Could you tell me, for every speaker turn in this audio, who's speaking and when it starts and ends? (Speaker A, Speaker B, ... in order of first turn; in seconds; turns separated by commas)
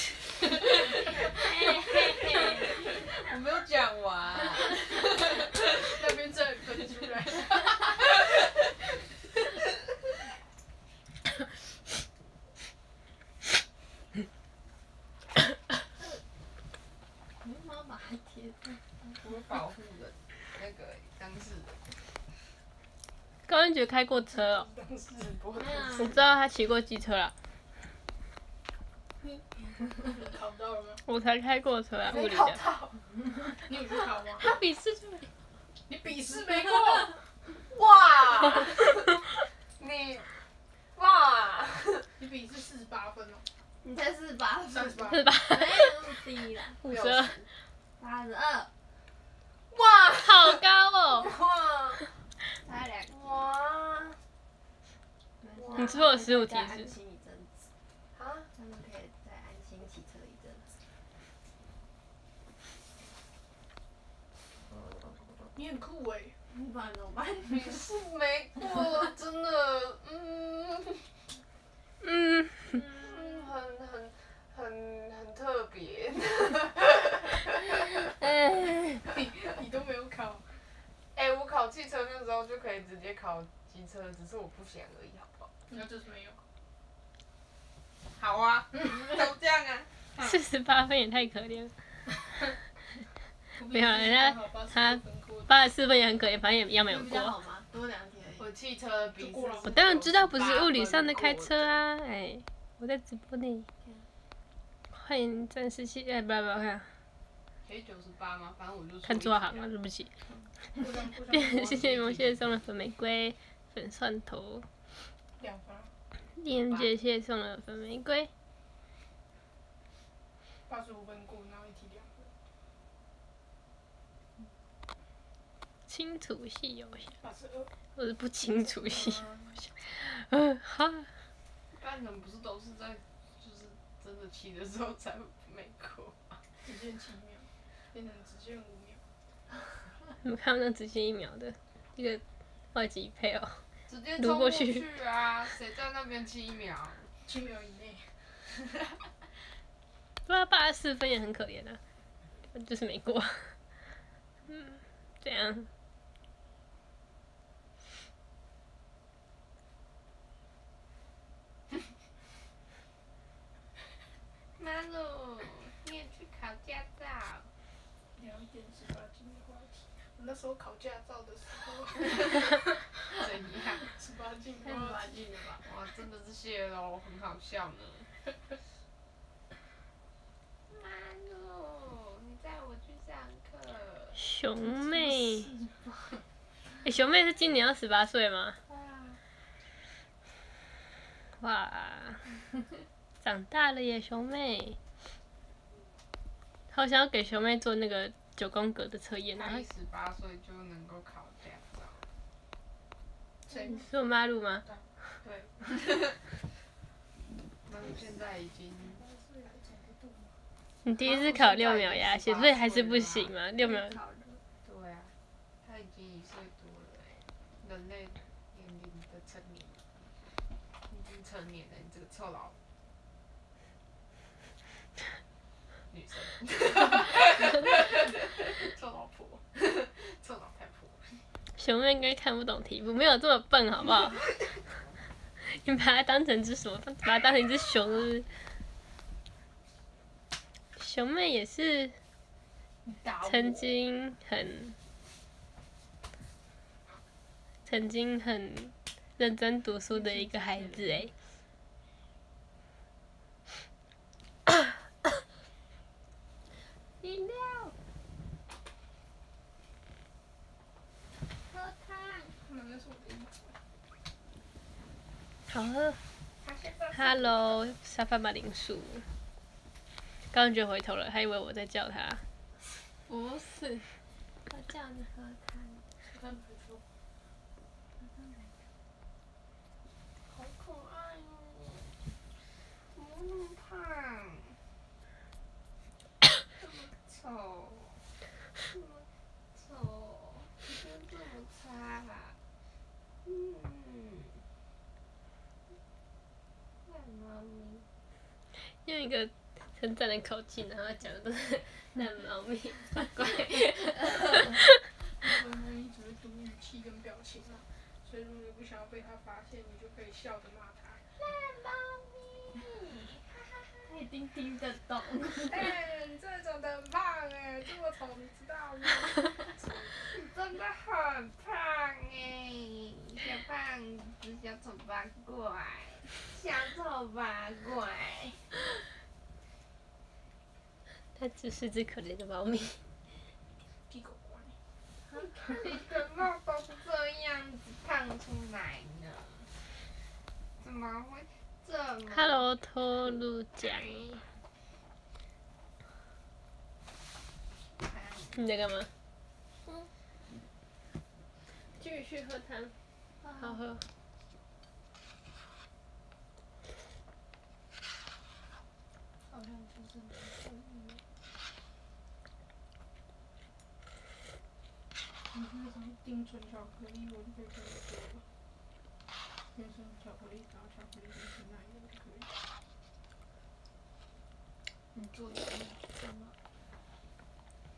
Speaker A: 0.4-1.4, Speaker B: 1.3-2.8, Speaker C: 3.1-5.6, Speaker A: 4.7-8.3, Speaker B: 17.4-18.8, Speaker C: 19.1-21.9, Speaker D: 23.5-24.7, Speaker A: 24.6-25.2, Speaker C: 25.1-26.1, Speaker B: 25.6-26.2, Speaker D: 25.9-27.3, Speaker A: 29.6-31.0, Speaker D: 31.1-32.6, Speaker C: 32.0-33.0, Speaker A: 33.6-34.6, Speaker B: 34.4-35.3, Speaker A: 35.9-37.1, Speaker C: 37.7-38.9, Speaker C: 39.8-40.3, Speaker C: 40.9-42.1, Speaker A: 42.2-43.5, Speaker B: 43.8-46.8, Speaker A: 44.7-45.3, Speaker D: 45.1-45.9, Speaker D: 46.8-47.5, Speaker C: 46.9-47.5, Speaker B: 48.0-48.7, Speaker C: 49.7-50.4, Speaker D: 50.1-51.3, Speaker C: 51.3-52.0, Speaker B: 52.6-53.5, Speaker C: 53.1-54.2, Speaker B: 55.4-57.7, Speaker C: 55.5-56.0, Speaker D: 55.7-56.9, Speaker C: 58.1-58.5, Speaker B: 58.5-60.8, Speaker A: 65.5-66.4, Speaker B: 66.5-67.5, Speaker C: 67.5-71.1, Speaker D: 72.0-72.8, Speaker C: 72.7-77.9, Speaker B: 78.1-79.0, Speaker A: 79.1-80.6, Speaker C: 81.1-85.5, Speaker A: 85.7-86.4, Speaker C: 88.2-89.9, Speaker D: 90.2-91.7, Speaker A: 93.5-95.5, Speaker D: 93.7-97.4, Speaker B: 96.9-98.5, Speaker C: 98.4-101.7, Speaker A: 99.1-99.8, Speaker D: 99.6-103.7, Speaker D: 104.9-106.9, Speaker C: 107.6-109.7, Speaker D: 109.0-110.1, Speaker A: 110.7-112.4, Speaker D: 111.3-114.7, Speaker A: 115.4-115.9, Speaker D: 116.3-118.3, Speaker A: 120.7-122.3, Speaker D: 125.9-127.1, Speaker A: 127.1-127.7, Speaker D: 128.0-131.1, Speaker C: 128.8-129.6, Speaker C: 131.7-136.4, Speaker A: 136.6-139.1, Speaker D: 140.2-142.2, Speaker D: 142.7-143.6, Speaker C: 143.9-147.1, Speaker D: 144.2-144.8, Speaker A: 147.2-148.8, Speaker D: 150.3-151.8, Speaker D: 152.5-153.6, Speaker D: 154.5-155.7, Speaker C: 164.6-167.5, Speaker A: 168.1-175.6, Speaker C: 173.1-173.9, Speaker B: 174.6-175.6, Speaker C: 175.6-178.1, Speaker C: 180.7-184.2, Speaker D: 184.2-185.5, Speaker D: 186.8-188.6, Speaker C: 188.7-189.2, Speaker D: 191.4-192.3, Speaker D: 193.2-194.8, Speaker D: 196.7-199.7, Speaker C: 199.3-202.0, Speaker D: 203.8-204.7, Speaker C: 204.7-206.2, Speaker C: 207.6-209.0, Speaker A: 208.8-210.4, Speaker D: 210.8-214.0, Speaker C: 211.0-213.3, Speaker B: 213.6-214.4, Speaker C: 214.6-219.8, Speaker C: 220.9-222.6, Speaker C: 225.9-231.2, Speaker D: 231.6-234.4, Speaker D: 235.4-238.3, Speaker D: 240.8-242.0, Speaker C: 242.8-243.6, Speaker D: 243.2-244.8, Speaker D: 247.7-251.1, Speaker B: 257.0-257.7, Speaker B: 261.5-262.3, Speaker A: 262.4-263.6, Speaker D: 265.5-266.0, Speaker C: 266.4-267.3, Speaker D: 266.9-269.1, Speaker D: 270.3-272.2, Speaker B: 273.1-273.9, Speaker B: 274.5-275.8, Speaker A: 276.0-276.8, Speaker C: 280.3-281.9, Speaker C: 282.9-284.5, Speaker C: 286.6-288.1, Speaker C: 288.7-292.4, Speaker C: 293.2-294.3, Speaker C: 296.9-297.9, Speaker D: 298.8-304.6, Speaker A: 305.2-311.0, Speaker C: 311.3-313.8, Speaker B: 313.9-315.7, Speaker A: 315.4-320.1, Speaker C: 320.1-328.5, Speaker D: 331.2-332.8, Speaker A: 333.9-334.6, Speaker C: 335.1-339.5, Speaker C: 340.6-342.4, Speaker D: 342.1-344.2, Speaker C: 347.8-348.5, Speaker D: 348.4-348.9, Speaker D: 351.8-352.7, Speaker D: 353.4-353.8, Speaker C: 359.3-360.9, Speaker A: 365.3-368.2, Speaker A: 369.5-372.4, Speaker C: 375.2-375.7